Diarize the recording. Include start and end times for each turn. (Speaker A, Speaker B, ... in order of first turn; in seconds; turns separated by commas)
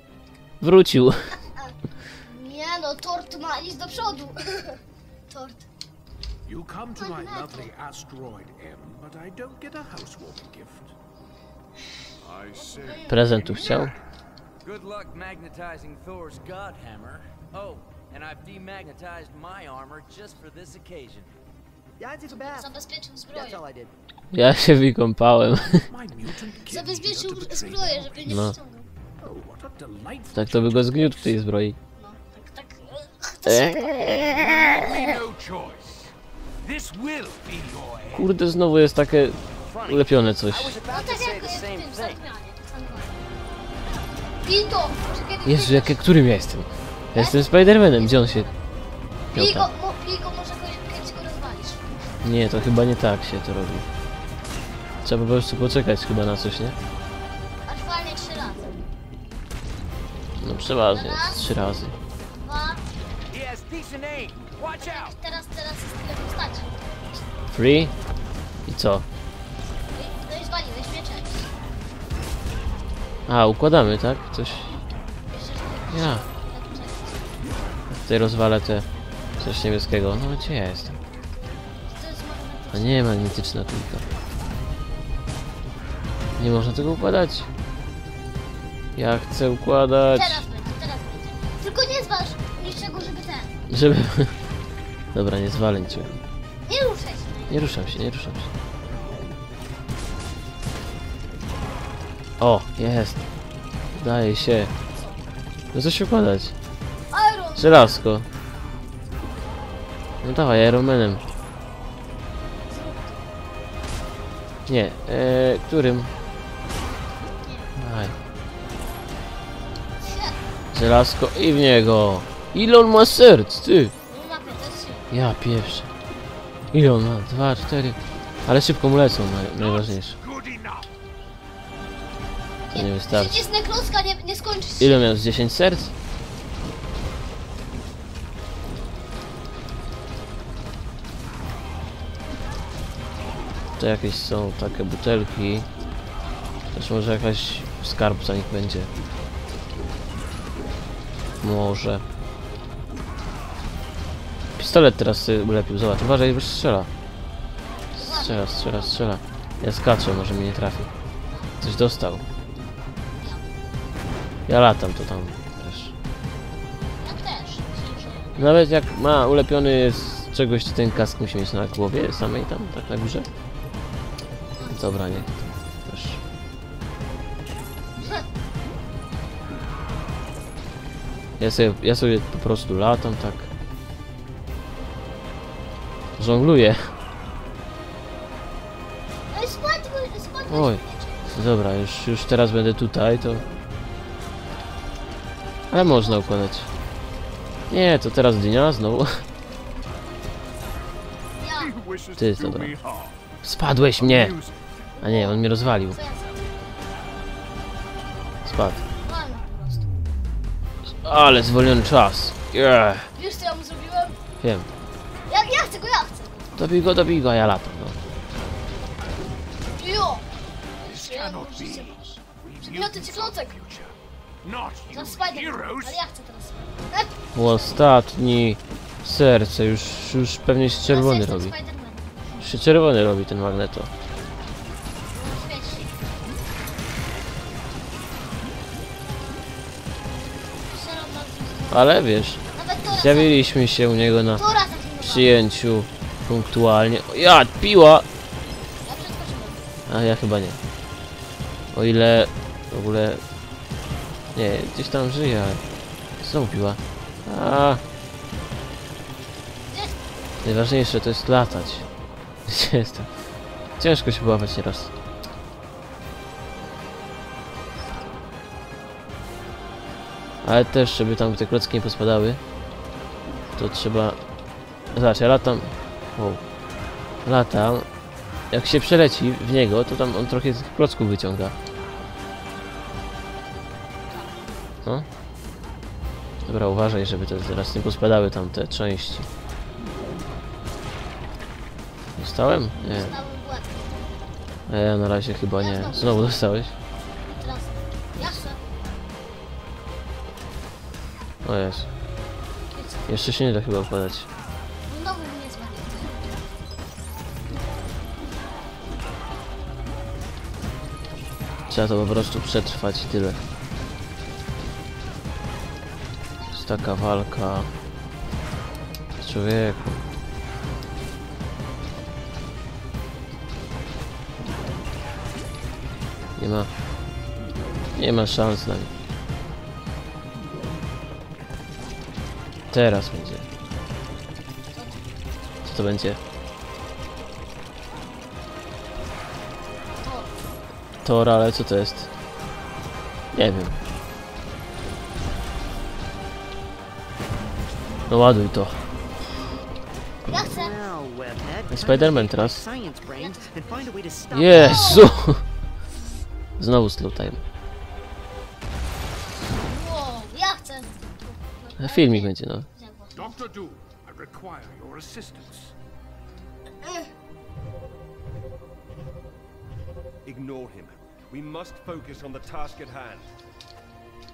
Speaker A: 0.6-1.3, Speaker B: 1.5-5.7, Speaker C: 6.5-10.9, Speaker B: 6.9-7.7, Speaker C: 12.2-13.9, Speaker B: 12.5-13.2, Speaker A: 13.1-13.9, Speaker D: 14.6-21.3, Speaker E: 22.0-22.7, Speaker B: 22.3-23.6, Speaker E: 23.3-23.9, Speaker A: 24.3-25.9, Speaker C: 25.8-28.4, Speaker B: 26.7-28.9, Speaker A: 28.2-28.5, Speaker C: 29.2-31.4, Speaker A: 30.3-31.8, Speaker B: 31.9-35.0, Speaker A: 33.5-34.8, Speaker C: 34.3-38.3, Speaker A: 38.1-40.8, Speaker D: 39.6-42.2, Speaker B: 40.9-43.3, Speaker B: 44.4-46.0, Speaker A: 45.5-48.5, Speaker B: 47.1-48.6, Speaker A: 49.3-49.7, Speaker B: 49.3-51.9, Speaker A: 52.2-53.9, Speaker A: 55.0-56.8, Speaker B: 57.6-58.7, Speaker A: 60.4-61.9, Speaker B: 60.9-61.5, Speaker B: 62.3-62.8, Speaker D: 63.3-65.2, Speaker B: 64.8-66.8, Speaker A: 67.5-67.9, Speaker A: 68.7-69.0, Speaker B: 69.9-71.5, Speaker A: 73.3-74.8, Speaker B: 75.3-77.4, Speaker A: 75.9-76.2, Speaker A: 77.9-78.8, Speaker A: 79.4-81.0, Speaker B: 81.9-83.1, Speaker A: 82.7-84.1, Speaker A: 86.4-87.5, Speaker A: 89.0-90.4, Speaker B: 90.1-93.5, Speaker A: 93.7-94.3, Speaker A: 95.1-96.2, Speaker B: 96.7-97.9, Speaker A: 97.5-98.5, Speaker A: 102.4-103.2, Speaker A: 103.9-104.7, Speaker B: 104.9-105.3, Speaker A: 105.7-106.5, Speaker B: 107.1-108.0, Speaker A: 107.6-108.3, Speaker A: 110.2-111.2, Speaker B: 112.7-113.3, Speaker A: 114.7-116.1, Speaker B: 117.4-117.7, Speaker A: 117.8-118.2, Speaker B: 120.0-120.4, Speaker A: 120.7-123.9, Speaker B: 124.0-125.1, Speaker A: 125.1-125.9, Speaker A: 126.7-130.2, Speaker C: 129.6-130.9, Speaker A: 132.7-133.4, Speaker B: 132.7-135.0, Speaker A: 134.8-135.9, Speaker A: 143.8-145.7, Speaker A: 146.7-148.9, Speaker A: 151.4-152.0, Speaker A: 154.6-156.9, Speaker B: 157.8-159.0, Speaker A: 157.9-160.9, Speaker B: 161.3-161.6, Speaker A: 161.6-162.2, Speaker B: 163.1-163.5, Speaker A: 164.5-165.9, Speaker B: 167.0-168.6, Speaker A: 168.4-173.3, Speaker B: 174.6-175.5, Speaker A: 174.7-175.3, Speaker A: 175.8-176.2, Speaker B: 178.0-178.2, Speaker A: 181.4-183.5, Speaker A: 186.2-186.9, Speaker B: 189.3-191.4, Speaker A: 190.5-190.8, Speaker A: 191.3-193.4, Speaker A: 195.7-196.7, Speaker B: 195.7-196.4, Speaker A: 197.7-199.2, Speaker B: 201.3-201.7, Speaker C: 201.6-203.2, Speaker A: 202.2-202.8, Speaker A: 203.4-204.3, Speaker C: 204.0-204.7, Speaker B: 205.0-206.7, Speaker A: 205.0-206.0, Speaker A: 208.4-208.8, Speaker B: 209.0-209.9, Speaker A: 211.0-213.1, Speaker B: 213.2-214.2, Speaker A: 214.4-214.7, Speaker B: 215.3-216.7, Speaker A: 216.6-218.0, Speaker B: 219.7-220.3, Speaker B: 220.8-223.5, Speaker C: 220.8-226.0, Speaker B: 224.9-227.8, Speaker A: 227.3-231.5, Speaker B: 230.8-232.5, Speaker A: 232.4-233.9, Speaker B: 235.1-236.0, Speaker B: 239.1-239.4, Speaker B: 240.7-241.9, Speaker A: 241.7-244.4, Speaker B: 242.5-243.4, Speaker B: 244.3-245.4, Speaker A: 245.0-248.1, Speaker B: 248.8-249.6, Speaker A: 249.9-250.6, Speaker A: 251.7-253.2, Speaker A: 254.3-255.6, Speaker A: 256.2-257.8, Speaker B: 259.7-260.0, Speaker A: 260.4-261.9, Speaker A: 262.5-263.1, Speaker A: 263.8-264.9, Speaker A: 270.4-272.4, Speaker A: 273.6-274.2, Speaker A: 274.9-276.4, Speaker A: 277.2-277.9, Speaker A: 278.5-281.6, Speaker B: 284.1-284.6, Speaker A: 286.4-289.3, Speaker A: 292.2-293.1, Speaker B: 292.8-293.9, Speaker A: 294.7-296.7, Speaker B: 295.6-296.4, Speaker B: 297.2-298.6, Speaker A: 301.4-301.9, Speaker B: 302.7-303.2, Speaker A: 303.1-304.3, Speaker B: 304.9-306.3, Speaker A: 311.7-313.4, Speaker A: 316.5-317.7, Speaker A: 319.2-320.0, Speaker A: 326.4-326.7, Speaker A: 328.0-328.9, Speaker A: 332.7-333.5, Speaker B: 334.7-335.0, Speaker A: 335.6-336.2, Speaker B: 340.0-340.3, Speaker A: 341.0-342.1, Speaker A: 343.3-343.8, Speaker A: 348.1-348.8, Speaker B: 350.3-350.7, Speaker E: 350.4-355.1, Speaker A: 351.7-352.6, Speaker B: 353.1-353.9, Speaker A: 354.3-355.4, Speaker B: 354.5-355.2, Speaker A: 356.6-357.4, Speaker B: 359.5-363.4, Speaker A: 361.8-362.7, Speaker C: 363.1-365.7, Speaker B: 366.8-367.1, Speaker F: 370.2-373.3